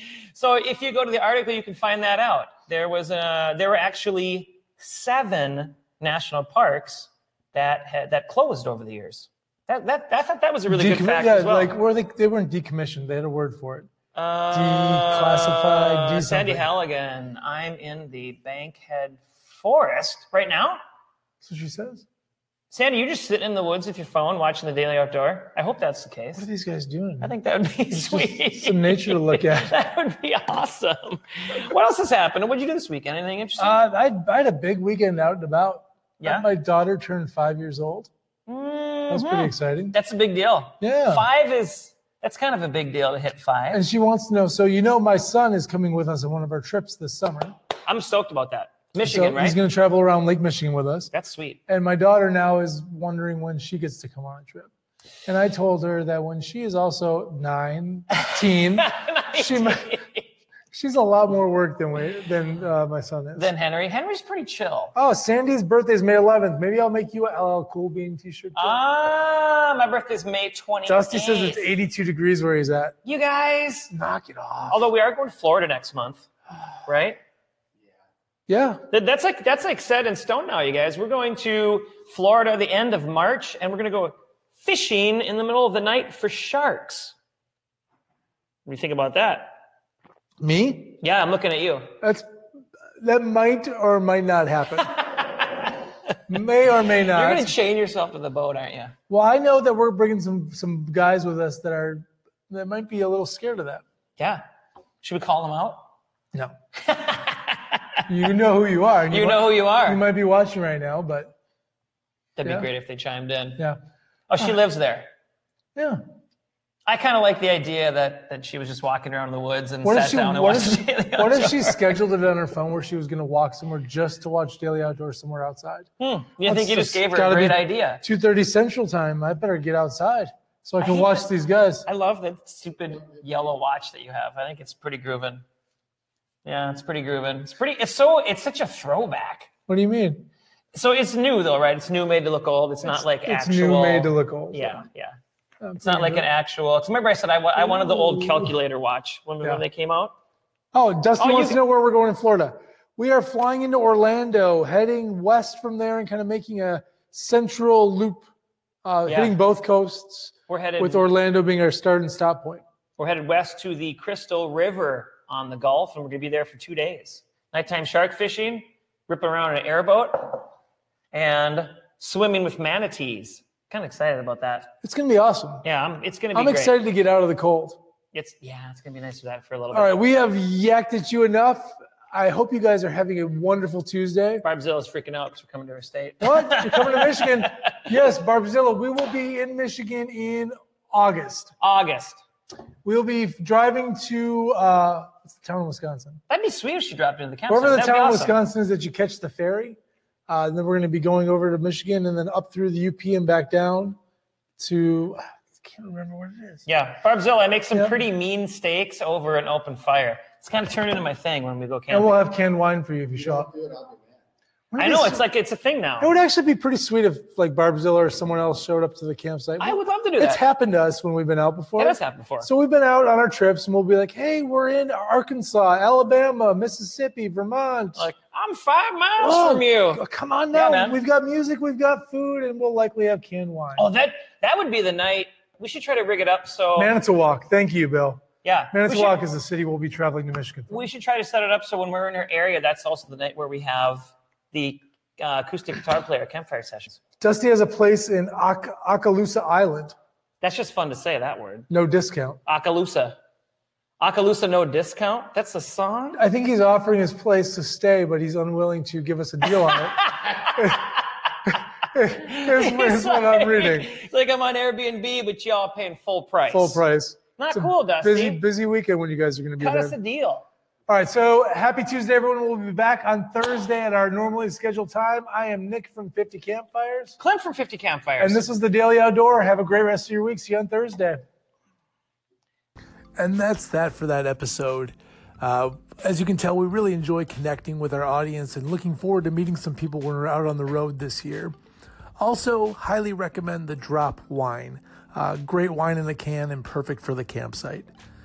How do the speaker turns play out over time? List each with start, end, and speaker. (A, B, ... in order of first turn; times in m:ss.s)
0:00.3-0:11.8 A
0:10.7-0:13.9 B
0:14.2-0:20.8 A
0:14.5-0:16.7 B
0:21.4-0:22.0 B
0:22.7-0:26.4 A
0:26.4-0:27.4 B
0:27.2-0:33.8 A
0:27.9-0:29.8 B
0:33.6-0:38.1 B
0:36.2-0:36.5 A
0:38.5-0:43.8 A
0:39.1-0:40.0 B
0:40.8-0:41.3 B
0:43.7-0:47.6 B
0:47.9-0:49.6 A
0:49.0-0:51.1 B
0:51.1-0:51.6 A
0:51.7-0:54.7 B
0:55.3-1:00.0 B
0:58.2-1:00.3 A
1:00.7-1:03.5 B
1:03.4-1:05.0 A
1:05.0-1:08.8 B
1:08.6-1:11.7 A
1:10.9-1:13.0 B
1:13.0-1:13.9 A
1:13.9-1:14.9 B
1:14.7-1:16.3 A
1:16.9-1:17.2 A
1:18.5-1:18.8 B
1:18.9-1:27.2 A
1:28.7-1:29.6 A
1:30.4-1:31.0 B
1:31.0-1:32.0 A
1:33.0-1:34.9 B
1:34.9-1:35.8 A
1:36.3-1:37.6 B
1:37.0-1:38.9 A
1:39.1-1:43.8 B
1:45.0-1:45.8 A
1:46.8-1:47.8 A
1:48.1-1:51.3 B
1:49.1-1:50.0 A
1:52.4-1:53.6 A
1:54.3-1:55.1 A
1:56.9-2:02.0 A
1:59.8-2:05.9 B
2:06.0-2:08.0 A
2:06.4-2:11.8 B
2:10.8-2:11.3 A
2:11.9-2:15.4 A
2:16.4-2:19.5 A
2:19.7-2:20.3 B
2:20.7-2:25.2 A
2:22.8-2:24.8 B
2:25.6-2:26.2 B
2:25.8-2:30.2 A
2:27.6-2:28.5 B
2:30.7-2:38.3 B
2:31.2-2:31.6 A
2:38.8-2:42.6 B
2:39.1-2:39.4 A
2:40.5-2:41.0 A
2:43.0-2:50.5 A
2:51.1-2:54.7 A
2:54.8-2:55.6 B
2:55.6-2:56.8 A
2:56.3-2:57.8 B
2:58.1-3:00.0 A
2:59.7-3:04.4 B
3:04.4-3:07.5 A
3:06.2-3:11.5 B
3:11.6-3:12.2 A
3:12.8-3:16.2 B
3:16.3-3:18.4 A
3:17.5-3:19.8 B
3:20.3-3:24.0 B
3:24.6-3:26.6 B
3:26.7-3:32.1 A
3:27.7-3:28.0 B
3:31.9-3:33.6 B
3:34.7-3:35.3 B
3:34.8-3:36.1 A
3:36.0-3:48.1 B
3:39.6-3:40.4 A
3:41.8-3:42.5 A
3:48.0-3:51.0 A
3:49.2-3:53.8 B
3:53.8-3:57.0 A
3:56.8-4:00.9 B
3:58.4-3:59.2 A
4:00.7-4:07.0 A
4:07.2-4:10.0 B
4:10.4-4:11.7 A
4:11.7-4:12.4 B
4:12.5-4:13.2 A
4:14.0-4:16.2 A
4:16.2-4:20.0 B
4:19.6-4:21.0 A
4:20.6-4:20.8 B
4:21.9-4:23.9 B
4:22.2-4:26.8 A
4:26.5-4:30.0 B
4:27.4-4:28.4 A
4:29.6-4:30.5 A
4:30.9-4:37.2 B
4:37.2-4:38.5 A
4:38.2-4:41.2 B
4:43.2-4:51.5 B
4:52.2-4:57.9 B